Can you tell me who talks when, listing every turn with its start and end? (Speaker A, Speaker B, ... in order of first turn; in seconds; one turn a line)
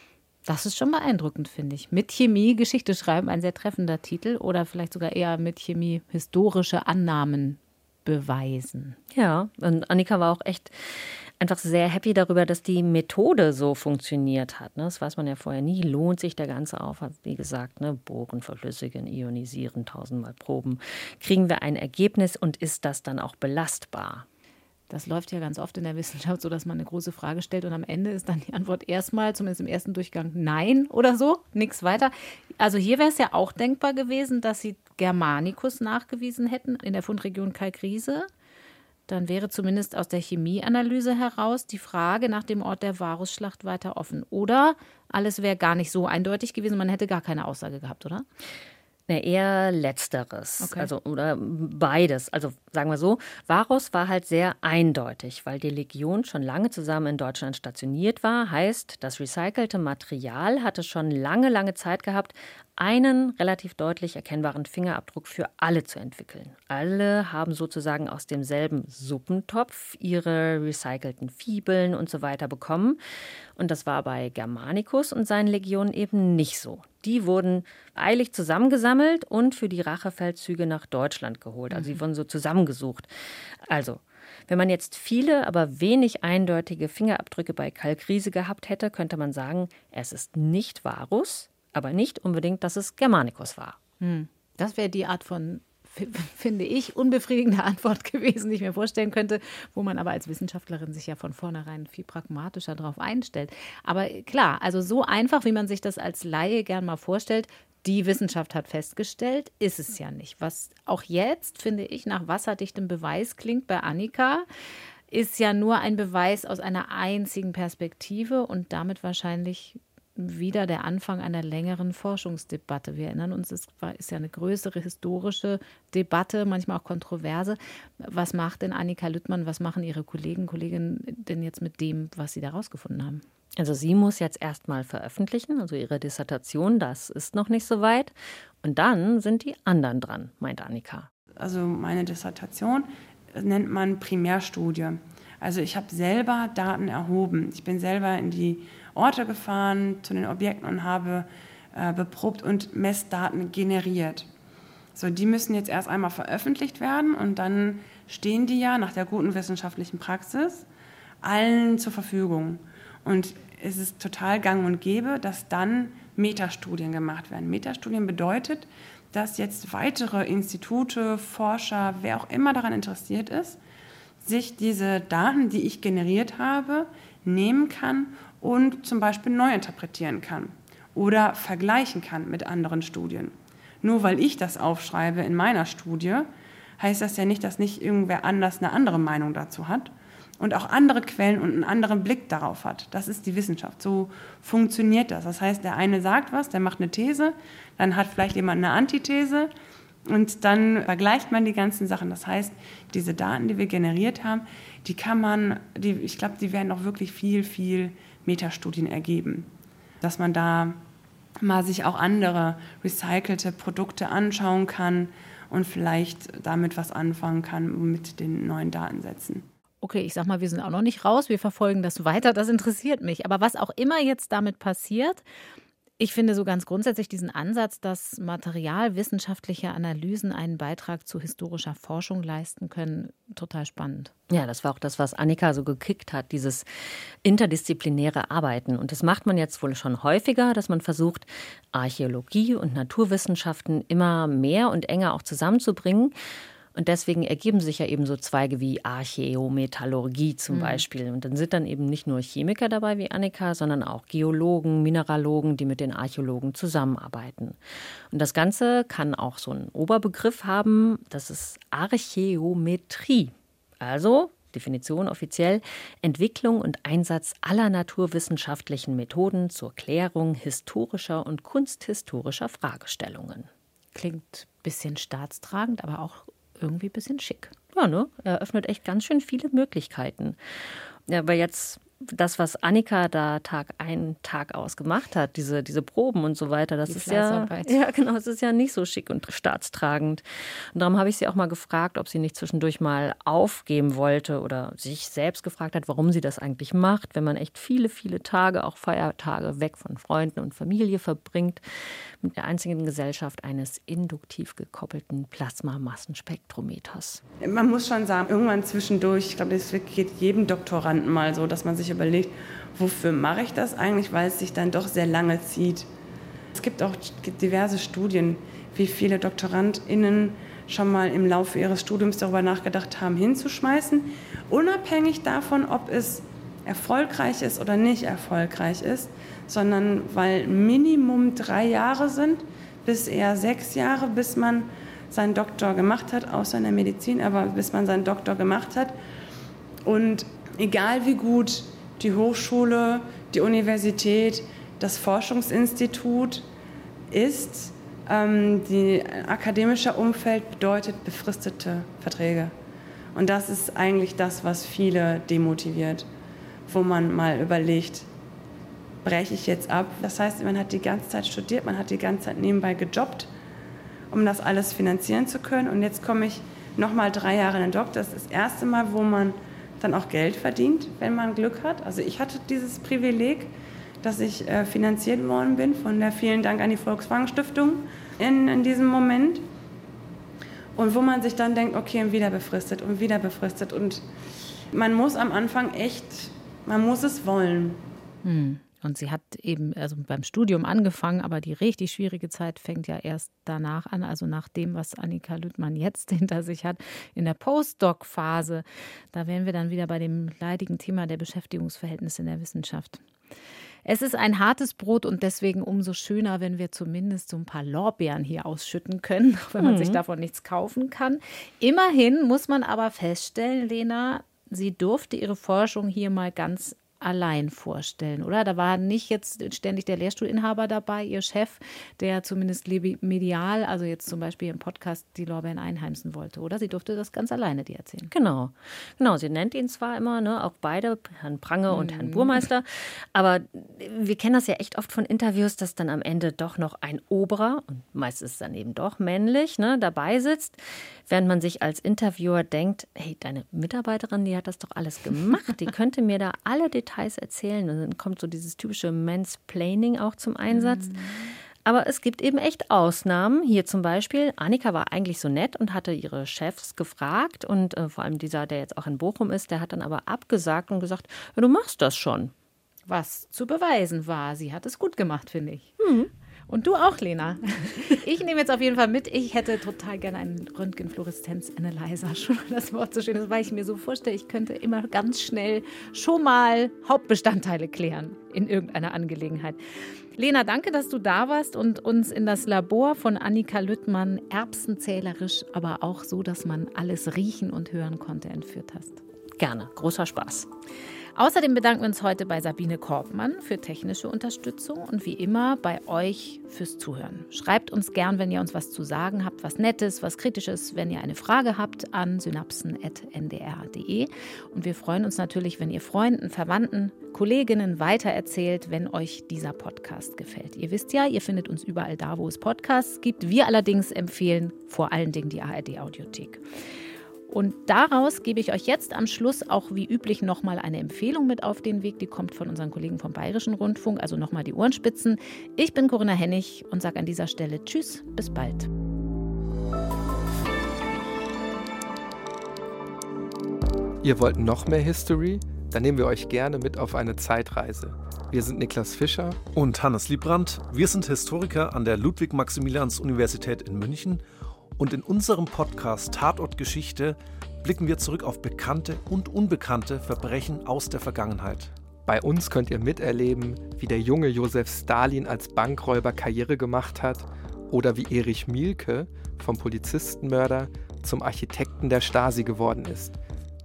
Speaker A: 0.5-9.0
Speaker B: 9.1-24.2
Speaker A: 24.9-38.3
Speaker A: 39.1-48.2
Speaker B: 49.1-73.0
Speaker A: 50.6-50.9
Speaker B: 73.5-83.1
Speaker B: 83.7-93.8
Speaker A: 94.0-114.5
Speaker A: 115.1-133.2
Speaker B: 133.6-141.1
Speaker C: 141.4-154.3
Speaker C: 154.9-160.7
Speaker C: 161.2-173.6
Speaker C: 174.2-186.3
Speaker C: 186.8-199.5
Speaker C: 200.1-209.5
Speaker C: 210.0-210.8
Speaker C: 211.4-219.5
Speaker A: 219.8-225.2
Speaker A: 226.0-234.1
Speaker B: 234.3-236.7
Speaker B: 237.2-246.1
Speaker B: 246.7-257.6
Speaker A: 250.5-250.8
Speaker B: 258.1-273.5
Speaker A: 273.9-277.5
Speaker B: 277.7-280.4
Speaker B: 281.1-301.6
Speaker A: 286.9-287.8
Speaker B: 302.2-307.2
Speaker C: 307.4-315.9
Speaker C: 316.5-338.9
Speaker C: 339.8-346.4
Speaker C: 347.1-352.5
Speaker C: 353.1-356.1
Speaker C: 356.7-358.1
Speaker C: 359.0-363.3
Speaker C: 364.1-379.4
Speaker C: 380.8-384.0
Speaker C: 384.7-387.8
Speaker A: 388.2-403.0
Speaker A: 403.8-428.1
Speaker B: 409.6-410.0
Speaker B: 428.1-462.3
Speaker A: 431.7-432.4
Speaker A: 462.9-465.8
Speaker B: 465.8-466.1
Speaker A: 466.5-479.6
Speaker A: 480.1-489.0
Speaker B: 489.4-490.5
Speaker A: 491.1-516.4
Speaker A: 517.3-528.7
Speaker D: 534.0-539.4
Speaker E: 539.5-544.2
Speaker E: 544.8-551.7
Speaker D: 552.0-563.2